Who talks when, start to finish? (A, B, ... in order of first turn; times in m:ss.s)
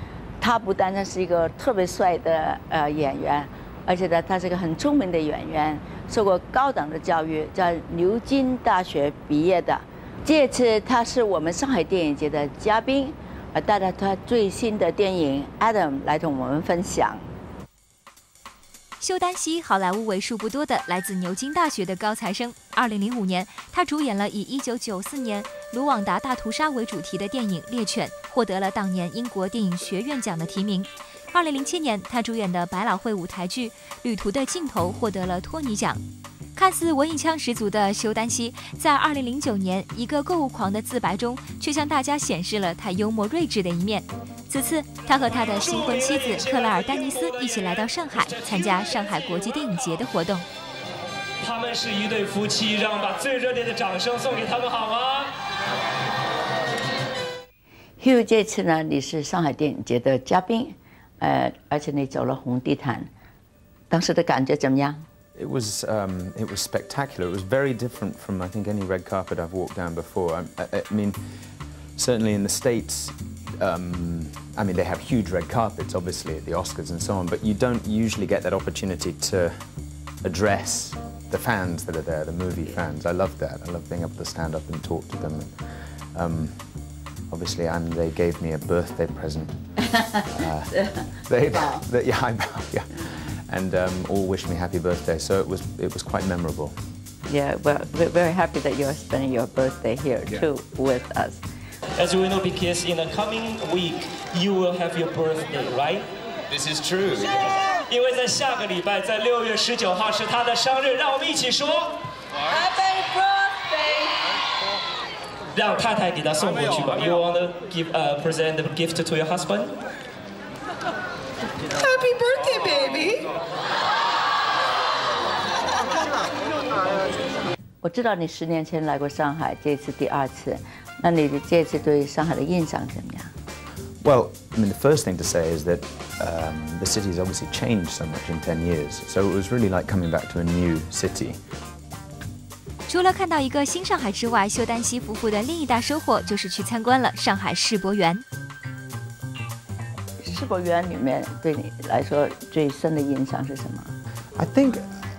0:00.4-0:17.3 A
0:19.0-0:36.0 B
0:36.6-0:50.4 B
0:45.4-0:48.9 C
0:51.4-0:55.4 C
0:58.0-1:03.1 A
1:03.9-1:05.0 A
1:05.4-1:11.2 D
1:12.0-1:19.5 D
1:20.2-1:25.5 D
1:26.1-1:26.6 D
1:27.3-1:29.6 D
1:30.0-1:30.2 A
1:30.3-1:36.8 D
1:30.8-1:31.8 A
1:37.3-1:41.4 A
1:41.9-1:46.1 C
1:46.5-1:47.5 D
1:47.8-1:52.0 C
1:52.5-1:54.2 A
1:55.5-1:59.8 C
2:07.8-2:13.3 A
2:14.0-2:21.4 D
2:22.9-2:28.2 B
2:30.2-2:33.9 A
2:34.4-2:34.8 D